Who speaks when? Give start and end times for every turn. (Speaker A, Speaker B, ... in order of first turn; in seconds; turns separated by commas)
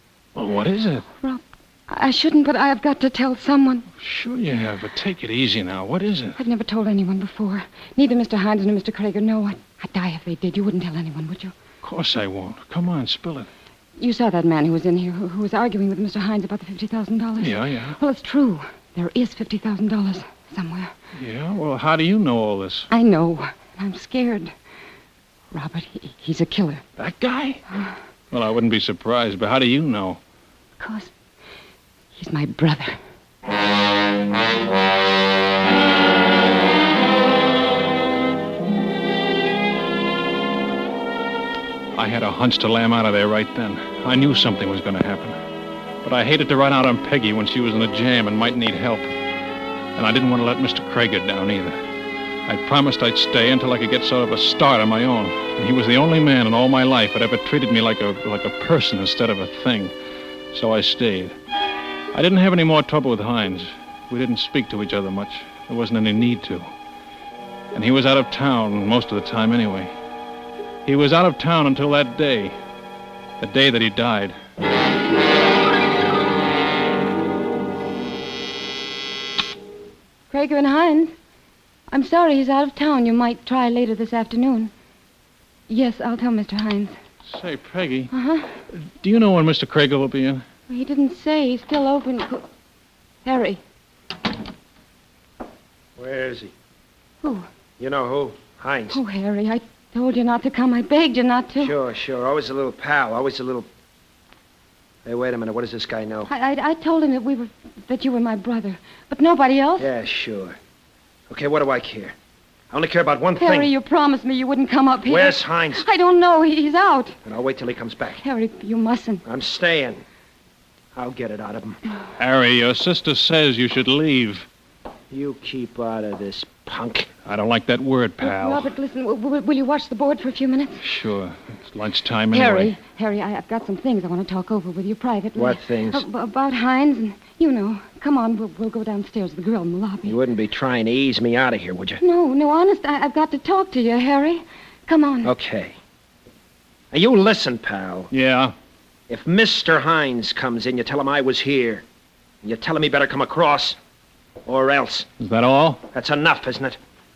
Speaker A: 0.3-1.1, Speaker B: 1.2-3.8, Speaker A: 4.0-6.4, Speaker B: 6.4-11.5, Speaker A: 11.8-13.5, Speaker B: 14.0-20.9, Speaker A: 17.4-18.0, Speaker A: 21.1-22.9, Speaker B: 22.9-24.5, Speaker B: 25.5-26.8, Speaker A: 27.0-27.6, Speaker A: 28.3-30.2, Speaker B: 30.8-31.1, Speaker B: 32.1-33.0, Speaker A: 41.9-45.4, Speaker A: 46.0-49.1, Speaker A: 50.0-51.8, Speaker A: 52.5-59.9, Speaker A: 60.5-61.3, Speaker A: 62.1-66.7, Speaker A: 67.7-69.9, Speaker A: 70.8-72.5, Speaker A: 73.4-74.3, Speaker B: 80.3-81.1, Speaker B: 81.9-84.7, Speaker B: 85.7-86.9, Speaker A: 87.2-88.1, Speaker B: 88.1-88.5, Speaker A: 88.7-90.4, Speaker B: 90.7-92.4, Speaker B: 93.2-93.6, Speaker C: 96.0-96.5, Speaker C: 97.8-99.0, Speaker B: 98.9-101.8, Speaker C: 101.6-103.7, Speaker C: 105.0-106.3, Speaker B: 106.3-109.9, Speaker C: 109.8-110.5, Speaker C: 111.3-112.1, Speaker C: 112.7-113.7, Speaker B: 113.4-117.2, Speaker C: 115.1-115.8, Speaker C: 117.2-118.2, Speaker B: 118.2-119.2, Speaker C: 119.2-120.0, Speaker C: 120.9-121.8, Speaker A: 122.2-124.5, Speaker C: 125.1-127.1, Speaker A: 127.2-128.7, Speaker B: 128.2-130.8, Speaker A: 130.8-132.7, Speaker B: 132.3-140.2, Speaker C: 135.4-136.0, Speaker C: 140.1-142.0, Speaker B: 142.0-145.3, Speaker C: 145.2-145.7, Speaker C: 146.9-148.1, Speaker A: 148.1-148.5, Speaker C: 149.1-151.8, Speaker C: 152.4-153.8, Speaker C: 154.4-155.1, Speaker A: 155.2-155.8, Speaker C: 155.9-156.8